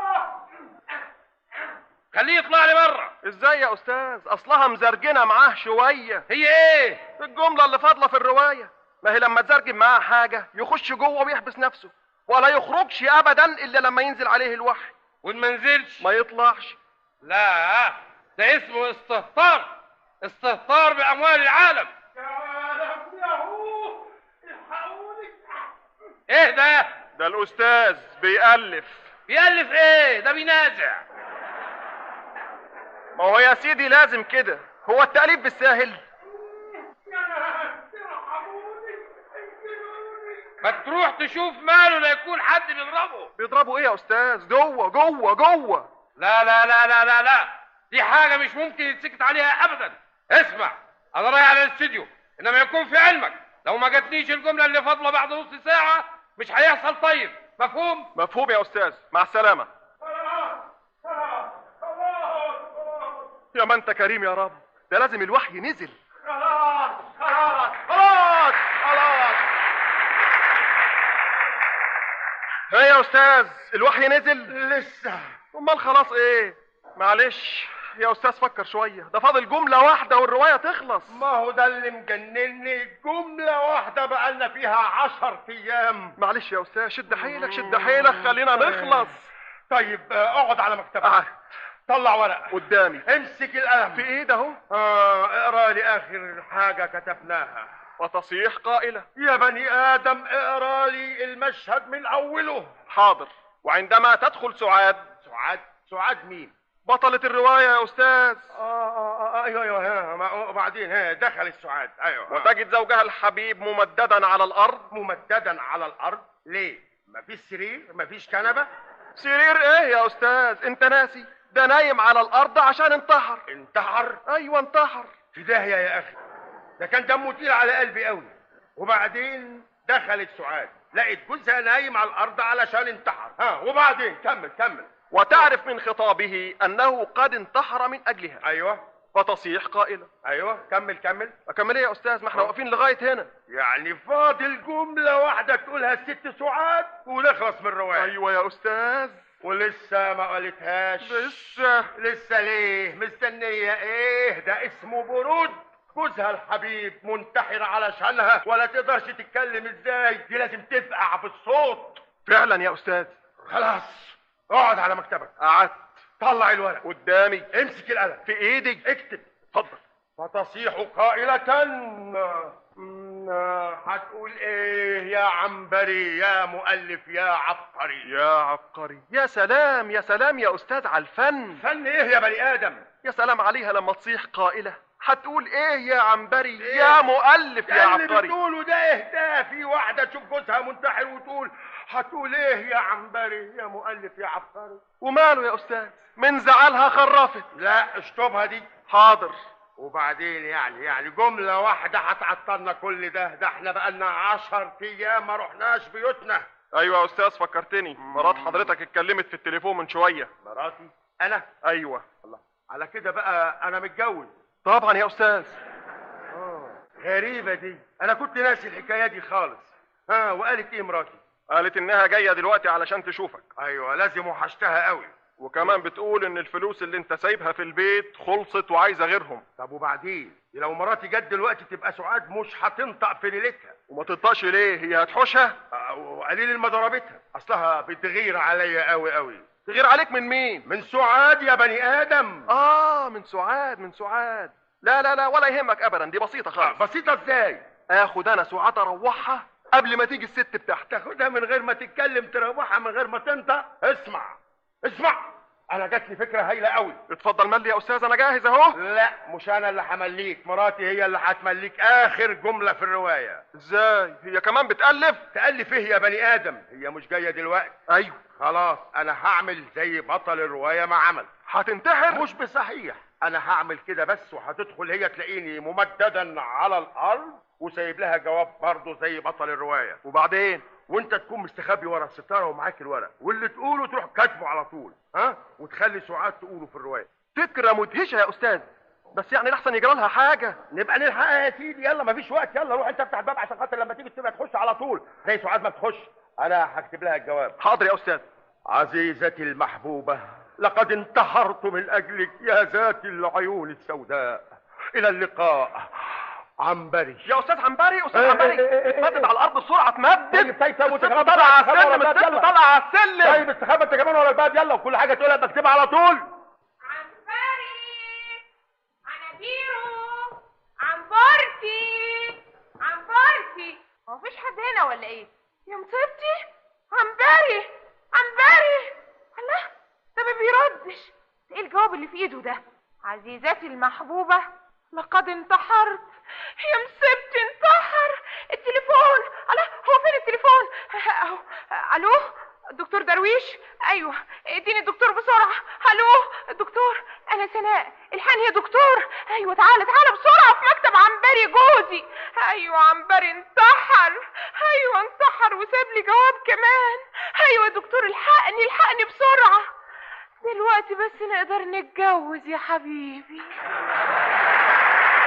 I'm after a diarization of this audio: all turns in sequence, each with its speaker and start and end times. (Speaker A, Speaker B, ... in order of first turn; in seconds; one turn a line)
Speaker A: 2.1-3.1
Speaker B: 3.2-6.3
Speaker A: 6.3-7.0
Speaker B: 7.2-14.9
Speaker A: 15.2-16.0
Speaker B: 16.0-16.8
Speaker A: 17.2-19.7
Speaker A: 20.2-21.9
Speaker C: 22.2-25.7
Speaker A: 26.3-26.9
Speaker B: 27.2-29.1
Speaker A: 29.3-31.0
Speaker B: 33.1-36.0
Speaker C: 37.0-38.9
Speaker C: 39.6-40.2
Speaker A: 40.6-43.3
Speaker B: 43.4-45.9
Speaker A: 46.2-58.1
Speaker B: 58.1-59.7
Speaker C: 60.1-63.1
Speaker B: 63.5-66.0
Speaker C: 66.3-69.4
Speaker B: 72.7-74.5
Speaker C: 74.5-75.2
Speaker B: 75.5-81.2
Speaker C: 81.1-86.2
Speaker B: 86.2-89.3
Speaker C: 88.5-88.9
Speaker C: 89.7-91.2
Speaker B: 91.0-91.3
Speaker C: 91.9-94.1
Speaker B: 92.5-93.0
Speaker B: 93.9-94.6
Speaker C: 94.7-97.7
Speaker B: 98.0-99.1
Speaker C: 99.2-102.8
Speaker B: 102.9-105.0
Speaker C: 105.2-106.5
Speaker B: 106.8-108.5
Speaker C: 108.5-112.5
Speaker B: 112.3-114.9
Speaker C: 114.9-118.7
Speaker B: 119.2-123.4
Speaker C: 123.5-124.2
Speaker B: 124.3-125.1
Speaker C: 125.3-126.2
Speaker C: 126.8-135.5
Speaker B: 135.1-138.4
Speaker C: 138.4-138.8
Speaker B: 139.1-140.1
Speaker C: 140.2-141.4
Speaker B: 141.5-143.3
Speaker C: 143.5-148.1
Speaker B: 148.0-149.2
Speaker C: 149.4-151.4
Speaker B: 151.0-151.9
Speaker C: 151.9-162.0
Speaker B: 162.2-163.1
Speaker C: 163.5-165.3
Speaker B: 165.4-165.9
Speaker C: 166.2-166.8
Speaker B: 166.8-167.5
Speaker C: 167.5-168.3
Speaker B: 168.3-168.8
Speaker C: 168.8-169.3
Speaker B: 169.5-169.8
Speaker C: 170.2-178.1
Speaker B: 178.1-181.6
Speaker C: 181.5-182.9
Speaker B: 183.0-188.3
Speaker C: 186.6-187.1
Speaker C: 187.7-194.8
Speaker B: 195.0-197.4
Speaker C: 197.6-198.7
Speaker B: 198.9-199.3
Speaker C: 199.8-206.4
Speaker B: 206.7-210.3
Speaker C: 210.4-211.5
Speaker B: 211.6-212.0
Speaker C: 212.2-214.3
Speaker B: 214.7-215.6
Speaker C: 216.3-221.2
Speaker B: 221.5-223.4
Speaker C: 223.6-225.8
Speaker B: 225.4-229.4
Speaker C: 229.6-233.8
Speaker B: 233.9-235.6
Speaker C: 235.7-239.7
Speaker B: 239.7-240.7
Speaker C: 240.7-242.5
Speaker B: 242.5-246.8
Speaker C: 246.6-247.7
Speaker B: 247.9-250.9
Speaker C: 250.9-257.0
Speaker B: 257.1-258.8
Speaker C: 258.7-263.4
Speaker B: 263.5-265.2
Speaker C: 265.3-267.8
Speaker B: 267.9-268.2
Speaker C: 268.4-271.3
Speaker B: 271.5-272.3
Speaker C: 272.1-280.0
Speaker B: 280.0-280.7
Speaker C: 280.9-287.1
Speaker B: 287.3-290.6
Speaker C: 290.7-297.6
Speaker B: 297.6-298.2
Speaker C: 298.7-306.1
Speaker C: 306.6-307.3
Speaker B: 307.2-313.4
Speaker C: 308.1-309.3
Speaker C: 310.3-312.5
Speaker C: 313.2-316.2
Speaker D: 316.9-318.4
Speaker D: 319.1-336.1
Speaker D: 336.6-359.6
Speaker D: 360.4-363.5